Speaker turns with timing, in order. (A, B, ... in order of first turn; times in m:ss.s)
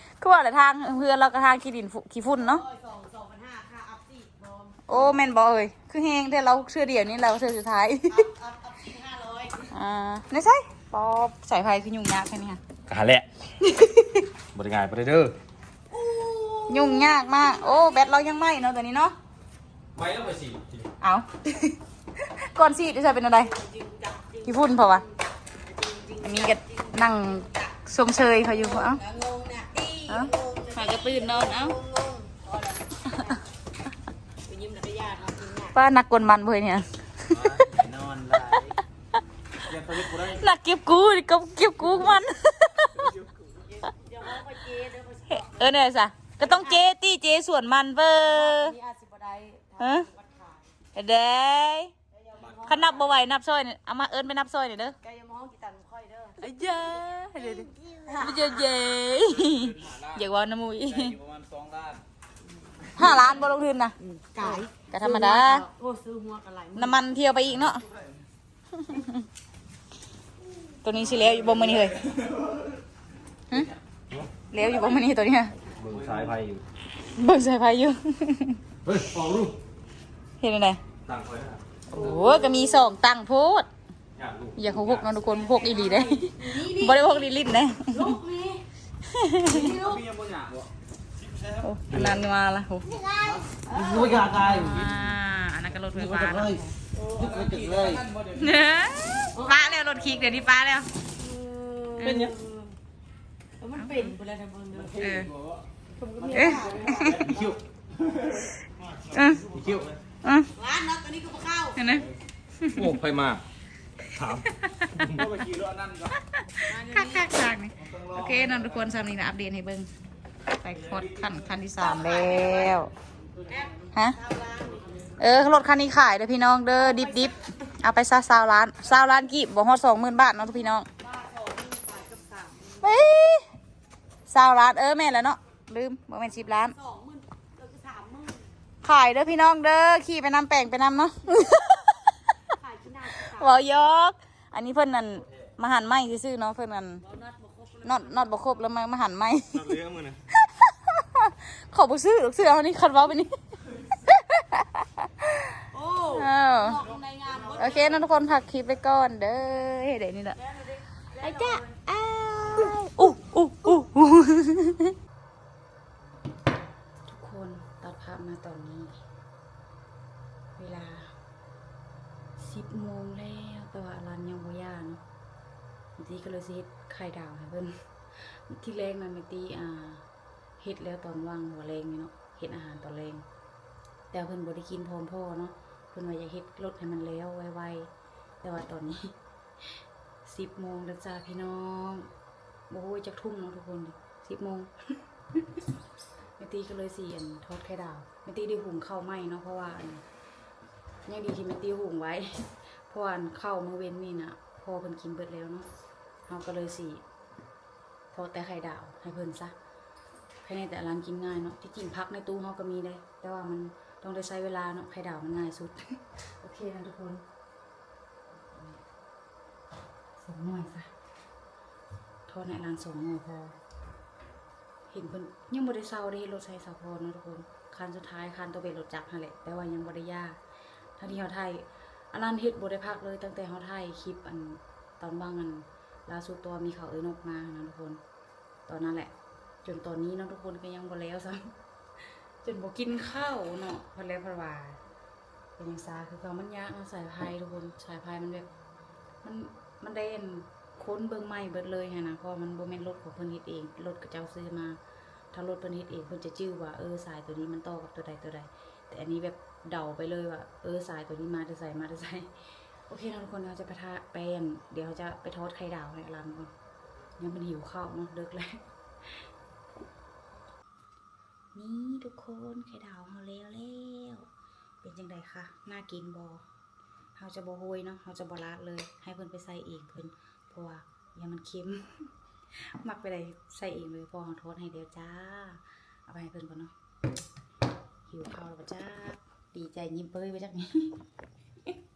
0:00.2-0:02.6 A
0:02.4-0:04.8 B
0:04.9-0:08.3 A
0:08.1-0:09.7 B
0:09.7-0:12.6 A
0:12.9-0:13.3 C
0:13.6-0:14.3 A
0:14.5-0:15.4 C
0:15.9-0:18.4 B
0:16.7-0:19.2 A
0:19.9-0:20.9 C
0:21.0-0:23.5 A
0:23.2-0:25.1 B
0:24.5-0:25.1 A
0:25.6-0:27.8 B
0:26.2-0:29.0 A
0:28.4-0:33.4 B
0:30.1-0:31.8 A
0:34.5-0:35.8 B
0:35.7-0:37.5 A
0:37.3-0:38.8 D
0:39.7-0:40.4 D
0:40.0-0:43.2 A
0:43.7-0:45.7 B
0:45.3-0:48.8 A
0:46.4-0:46.9 B
0:48.3-0:50.7 B
0:49.8-0:50.1 A
0:51.0-0:51.9 A
0:52.1-0:53.2 B
0:52.6-0:55.0 A
0:55.0-0:56.5 B
0:56.4-1:01.2 A
0:57.4-0:58.7 B
0:59.2-1:00.2 D
1:00.9-1:02.0 D
1:03.0-1:05.6 A
1:03.0-1:03.4 B
1:04.0-1:07.0 B
1:06.8-1:07.8 A
1:08.8-1:09.2 A
1:10.8-1:12.0 A
1:14.5-1:15.5 A
1:15.8-1:16.6 C
1:15.9-1:16.3 D
1:17.2-1:18.6 A
1:18.8-1:19.6 C
1:20.4-1:20.8 A
1:21.0-1:21.6 C
1:21.9-1:23.7 A
1:22.0-1:22.6 B
1:24.2-1:25.1 C
1:24.6-1:28.2 A
1:25.3-1:27.3 B
1:27.9-1:28.6 B
1:29.1-1:29.8 A
1:29.5-1:30.1 B
1:29.6-1:30.7 D
1:31.6-1:32.9 A
1:32.9-1:34.6 B
1:33.8-1:34.9 C
1:34.3-1:36.7 A
1:36.2-1:36.5 C
1:37.0-1:38.5 D
1:37.2-1:38.0 C
1:38.4-1:40.9 A
1:39.4-1:40.1 B
1:41.2-1:42.7 B
1:42.0-1:42.4 C
1:43.6-1:45.0 B
1:43.8-1:44.1 A
1:44.8-1:45.6 D
1:45.0-1:45.3 A
1:46.0-1:47.6 B
1:46.2-1:47.6 D
1:46.3-1:47.2 A
1:49.1-1:49.5 A
1:49.5-1:49.9 D
1:49.5-1:49.9 C
1:50.6-1:51.8 B
1:51.8-1:52.1 A
1:52.6-1:52.9 A
1:52.7-1:53.4 C
1:54.2-1:55.3 C
1:54.4-1:55.1 A
1:55.1-1:56.1 D
1:56.1-1:59.9 A
1:56.7-1:57.3 B
2:00.6-2:02.9 A
2:01.8-2:02.8 B
2:03.5-2:05.1 B
2:05.2-2:10.9 A
2:06.8-2:07.4 B
2:11.0-2:12.9 B
2:12.8-2:13.5 A
2:14.3-2:16.8 A
2:16.7-2:18.5 B
2:18.8-2:22.1 A
2:22.5-2:23.6 B
2:23.3-2:27.0 A
2:27.0-2:28.6 B
2:27.8-2:29.8 A
2:29.6-2:30.2 C
2:30.3-2:33.3 A
2:33.9-2:35.6 A
2:35.7-2:38.3 B
2:36.2-2:36.8 A
2:37.5-2:40.4 A
2:40.4-2:41.8 B
2:41.2-2:45.0 A
2:47.1-2:49.0 A
2:50.6-2:51.1 A
2:52.4-2:55.0 A
2:56.0-3:00.0 A
3:00.6-3:03.2 A
3:04.1-3:07.9 A
3:08.4-3:09.1 A
3:10.3-3:12.1 A
3:12.7-3:14.7 A
3:16.4-3:20.0 A
3:21.1-3:25.7 A
3:26.3-3:27.0 A
3:28.1-3:29.5 A
3:30.4-3:35.8 A
3:36.4-3:37.2 A
3:38.6-3:38.8 A
3:40.2-3:40.9 A
3:42.3-3:43.6 A
3:44.9-3:50.4 A
3:51.0-3:58.0 A
3:58.7-3:59.1 A
3:59.6-4:01.5 A
4:02.4-4:04.8 A
4:05.6-4:08.5 A
4:09.2-4:14.8 A
4:15.3-4:22.3 A
4:22.9-4:26.5 A
4:27.2-4:29.2 A
4:31.6-4:34.3 A
4:34.8-4:36.4 A
4:37.2-4:42.1 A
4:42.7-4:46.7 A
4:48.1-4:51.0 A